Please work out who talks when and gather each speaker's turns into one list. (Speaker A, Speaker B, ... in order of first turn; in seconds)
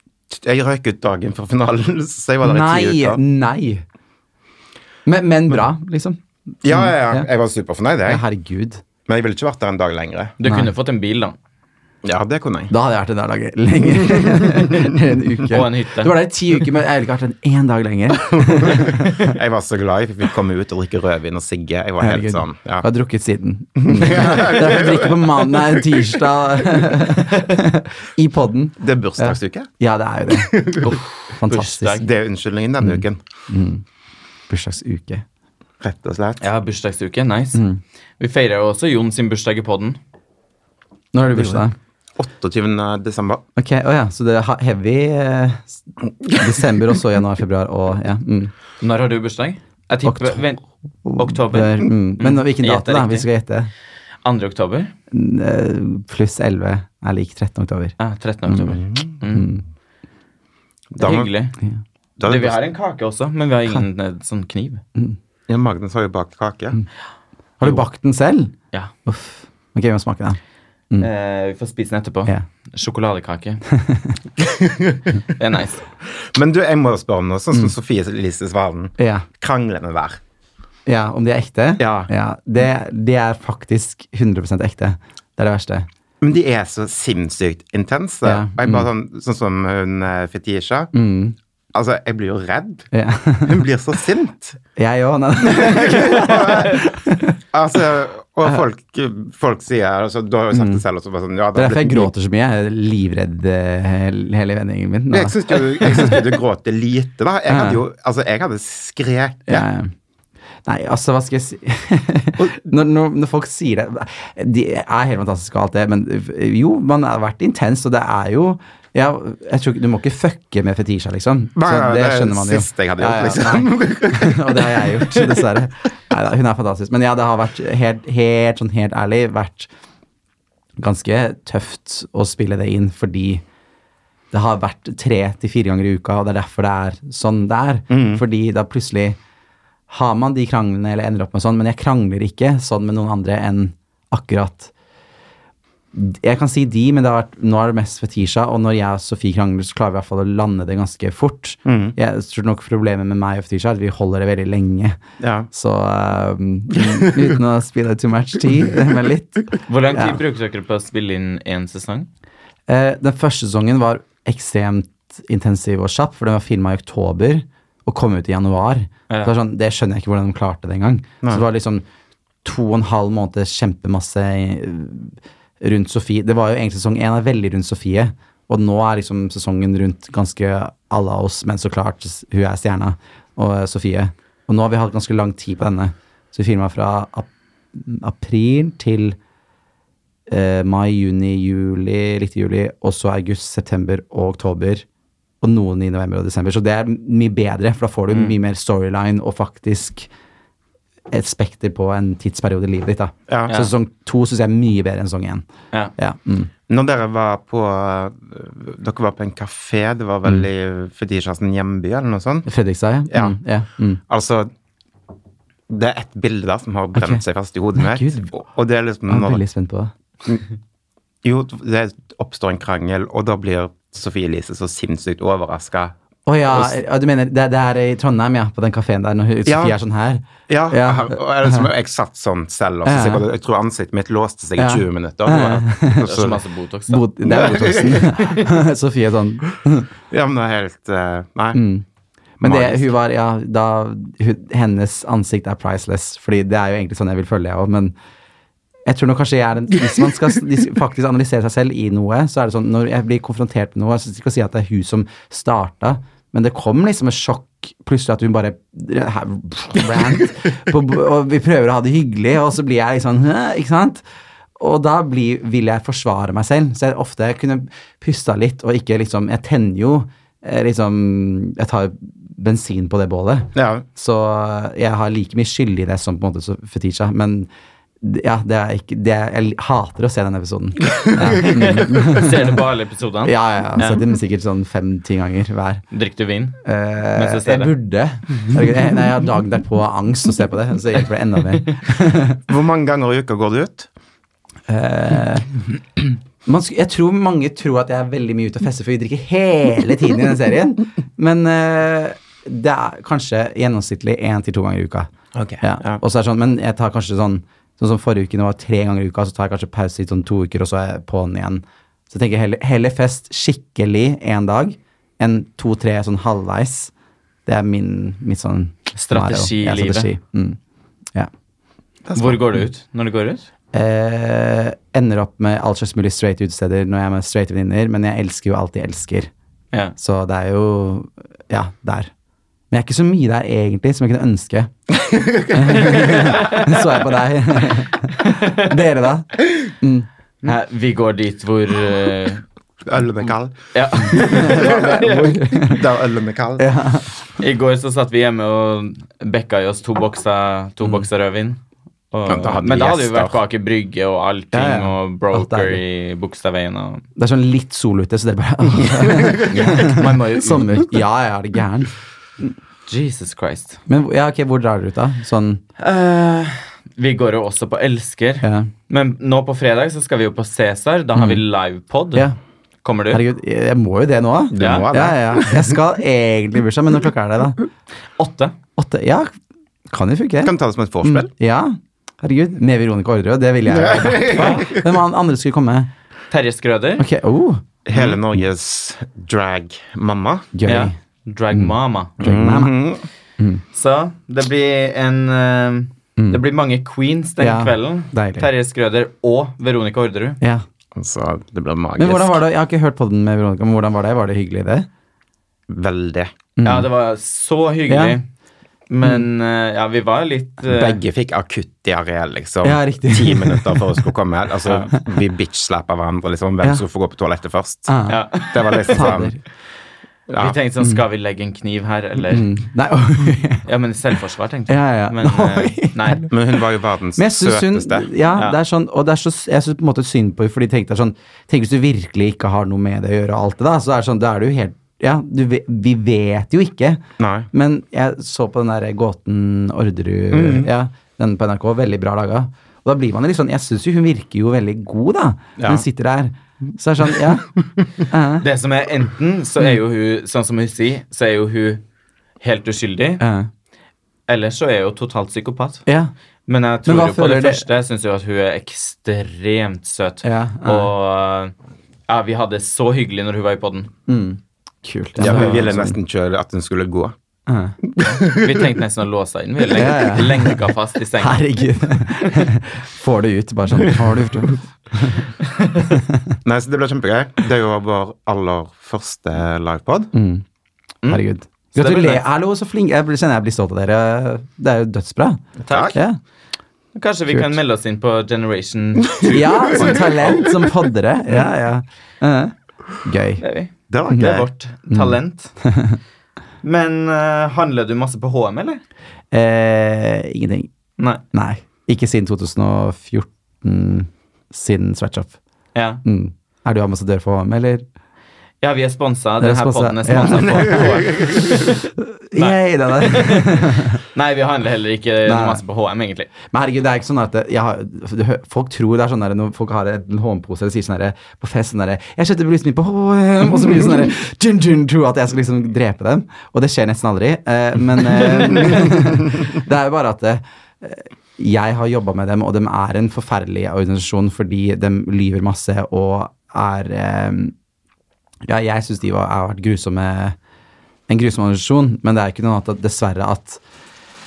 Speaker A: 0.3-3.2, 6.6-8.2, 9.1-10.3, 12.0-12.7, 14.0-14.6, 18.2-22.9, 23.8-26.2, 28.8-29.7, 30.3-30.9, 32.0-33.2, 35.8-36.4, 42.2-43.4, 58.8-59.1, 60.9-61.3, 62.2-62.6, 65.5-66.8, 74.4-75.0, 76.1-80.2, 81.8-82.1, 86.2-90.9, 91.7-92.9, 93.4-94.6, 95.4-96.8, 97.5-102.1, 105.1-109.7, 121.5-125.0, 137.9-138.2, 151.6-151.9, 155.2-155.5, 203.3-203.5, 206.7-212.5, 213.1-213.4, 214.1-214.5, 215.7-219.4, 221.2-225.9, 229.4-229.8, 230.5-236.4, 237.3-238.2, 240.1-241.6, 242.4-242.9, 273.5-273.8, 292.5-293.9, 305.3-306.0, 322.0-322.4, 334.9-336.1, 342.8-345.1, 345.6-346.6, 352.3-353.4, 374.5-375.8, 380.4-381.3, 383.7-384.9, 387.9-390.5, 392.2-393.0, 400.9-402.4, 405.7-406.3, 410.7-417.9, 418.5-419.3, 420.3-420.6, 426.3-428.1, 437.2-437.5, 440.3-440.7, 445.6-445.8, 465.2-467.1, 467.9-468.7, 476.4-480.1, 485.6-486.0, 493.9-494.5, 510.6-511.5
Speaker B: 2.4-3.8, 5.0-7.3, 8.0-8.8, 10.4-10.7, 12.7-19.3, 22.0-32.0, 32.8-33.8, 34.5-35.2, 37.5-37.8, 41.1-41.7, 43.5-48.5, 50.0-50.4, 51.0-53.7, 55.1-58.0, 58.5-58.8, 59.3-59.6, 67.6-68.5, 69.0-70.4, 73.7-74.2, 79.0-79.2, 80.8-85.9, 88.2-88.9, 90.9-91.3, 92.9-93.6, 94.8-97.3, 100.5-100.8, 101.5-106.2, 107.5-107.8, 109.5-109.9, 110.7-129.7, 130.8-133.4, 134.3-139.2, 139.9-144.7, 145.9-155.0, 155.5-160.2, 162.7-171.8, 172.4-189.2, 190.3-194.8, 195.4-200.1, 201.1-205.4, 206.0-206.5, 212.5-214.0, 216.9-217.2, 217.8-218.3, 219.1-219.9, 226.2-231.7, 232.8-233.2, 234.6-236.1, 236.9-239.9, 241.5-241.8, 242.4-247.9, 248.8-264.0, 264.6-277.5, 278.0-282.6, 283.2-285.8, 286.6-292.4, 294.7-316.9, 317.4-320.6, 323.7-329.3, 330.0-332.1, 332.7-334.7, 335.5-340.1, 344.1-345.8, 346.6-347.1, 354.5-355.8, 357.1-361.9, 363.9-365.6, 368.4-368.7, 371.1-371.4, 373.1-377.6, 378.8-379.3, 379.9-385.9, 387.0-387.6, 390.5-390.9, 391.5-392.7, 397.4-398.5, 402.0-404.9, 406.6-406.9, 407.9-408.2, 412.6-414.0, 417.9-419.4, 422.3-423.6, 424.7-426.3, 427.1-447.5, 448.0-448.4, 453.2-453.5, 455.9-456.1, 456.8-457.6, 460.2-460.9, 464.1-465.9, 467.5-467.8, 469.7-470.6, 471.2-475.3, 475.9-476.4, 480.1-480.4, 481.1-486.2, 487.3-487.6, 489.2-493.4, 494.1-494.4, 494.9-496.0, 499.3-500.7, 501.3-505.4, 506.0-507.8, 509.4-510.9, 512.0-514.0, 515.2-515.6, 516.5-537.5, 538.5-540.4, 541.1-543.6
Speaker C: 10.4-11.3, 15.5-16.1, 30.8-32.1, 36.4-37.6, 38.2-40.0, 48.8-50.6, 51.2-53.3, 54.2-54.9, 58.0-59.5, 61.0-61.5, 62.2-64.8, 71.0-73.6, 75.3-75.8, 159.7-162.1, 236.0-237.0, 281.4-284.0, 285.9-286.6, 287.1-287.7, 318.9-320.1, 322.1-323.5, 335.9-336.9, 338.2-338.7, 340.4-342.4, 343.7-345.6, 347.4-351.6, 352.1-357.0, 359.4-360.9, 362.9-363.8, 365.8-372.3, 372.8-373.2, 374.6-374.9, 378.2-378.6, 384.4-384.7, 386.3-387.0, 390.6-392.1, 393.7-400.4, 406.6-408.2, 408.9-411.0, 418.1-419.2, 420.4-422.5, 423.6-426.2, 448.4-451.8, 452.4-453.2, 454.3-455.8, 456.5-461.5, 462.1-463.9, 465.3-465.6, 468.0-471.4, 481.7-482.2, 485.7-486.0, 486.9-490.5, 493.4-495.5, 496.6-498.8, 505.7-506.0, 508.6-516.3